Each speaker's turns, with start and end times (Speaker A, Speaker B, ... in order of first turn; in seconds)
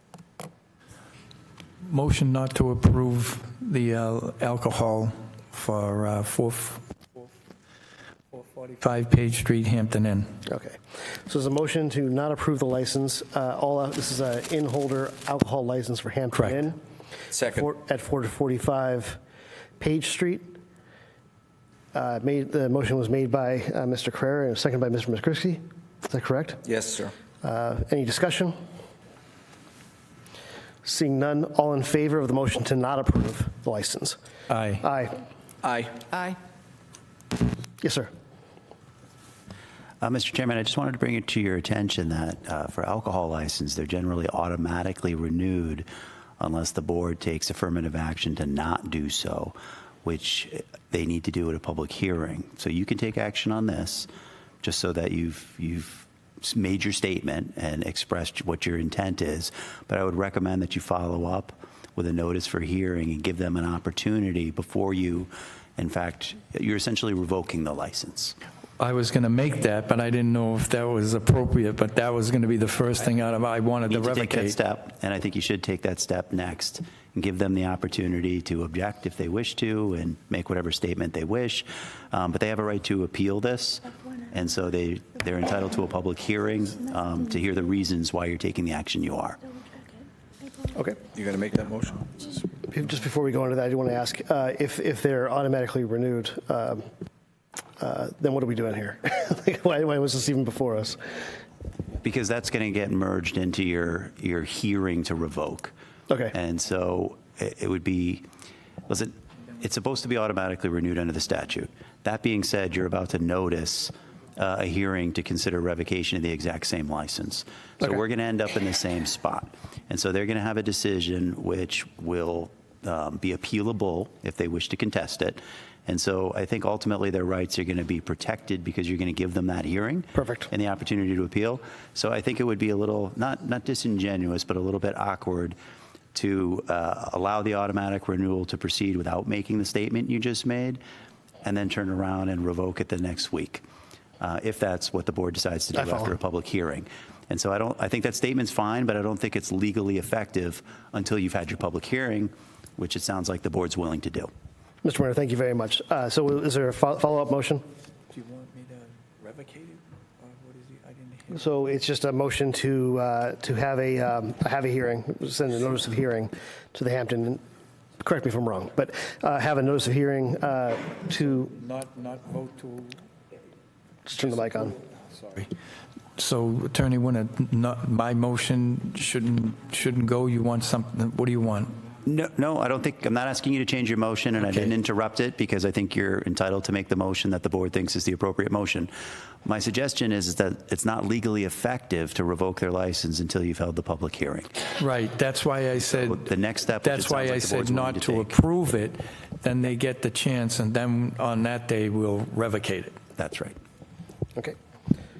Speaker A: 1.8-6.8, 8.7-10.3, 34.5-34.8, 68.8-74.6, 158.1-161.3, 171.6-173.0, 175.1-175.5, 176.2-181.8, 184.4-184.7, 194.8-203.0
Speaker B: 10.5-16.8, 17.5-19.2, 19.8-20.6, 21.9-26.6, 27.4-28.6, 30.8-34.2, 34.8-35.2, 37.8-38.1, 92.6-96.9, 97.8-101.3, 130.2-130.5, 145.8-146.1, 154.8-157.6, 161.3-167.4, 168.0-171.5, 174.1-174.8
Speaker C: 17.3-17.7, 26.6-27.1, 35.6-36.4, 91.1-92.4
Speaker D: 40.0-45.9, 46.4-54.1, 54.6-68.4, 73.9-89.4, 102.0-105.7, 106.3-108.3, 108.9-135.6, 136.1-140.8, 141.4-143.6, 144.2-154.3, 182.1-188.9, 189.4-194.5, 195.9-198.3, 203.2-203.6